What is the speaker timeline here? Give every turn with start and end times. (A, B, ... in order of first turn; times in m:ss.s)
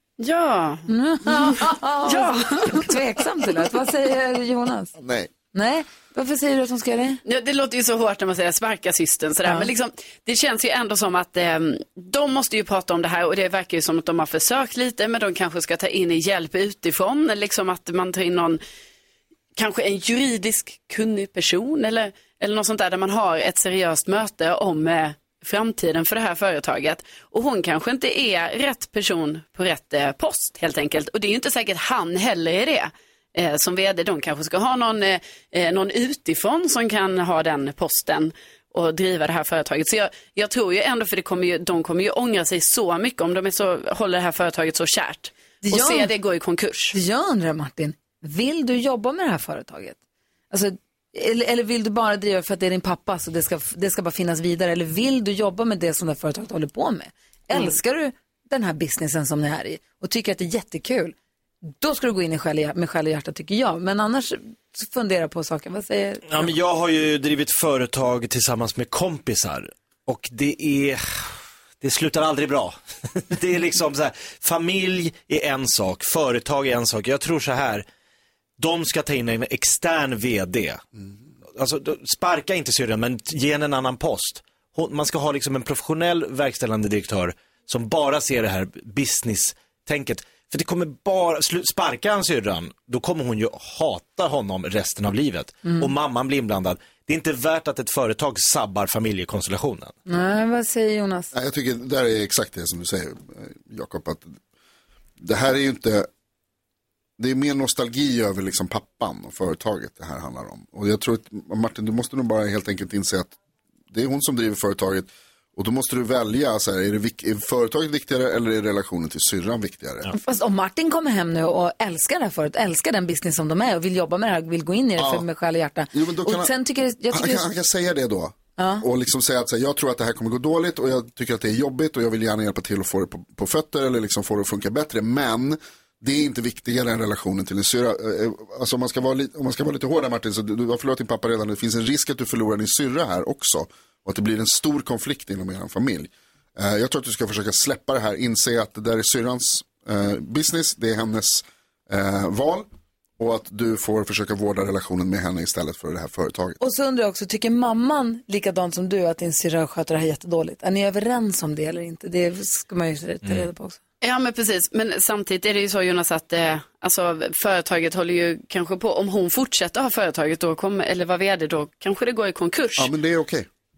0:00.2-0:01.5 A
0:00.9-0:04.9 B
0:02.0-0:02.9 A
0:05.0-0:05.3 C
0:05.5-0:07.2 B
0:07.3-0:18.6 A
0:19.6-0:47.0 A
0:45.6-0:46.1 B
0:46.9-0:50.0 B
0:50.5-1:01.2 B
1:01.8-1:06.5 B
1:06.3-1:17.8 D
1:18.6-1:20.8 D
1:21.6-1:39.9 D
1:40.1-1:41.3 B
1:41.3-1:44.4 C
1:45.2-1:46.1 C
1:47.2-1:53.3 C
1:53.9-2:00.1 C
2:00.2-2:07.5 B
2:05.0-2:05.3 C
2:05.9-2:06.5 C
2:07.1-2:32.7 C
2:08.6-2:08.8 B
2:33.2-2:36.6 C
2:36.6-2:43.8 B
2:44.0-2:52.9 A
2:52.8-2:53.5 C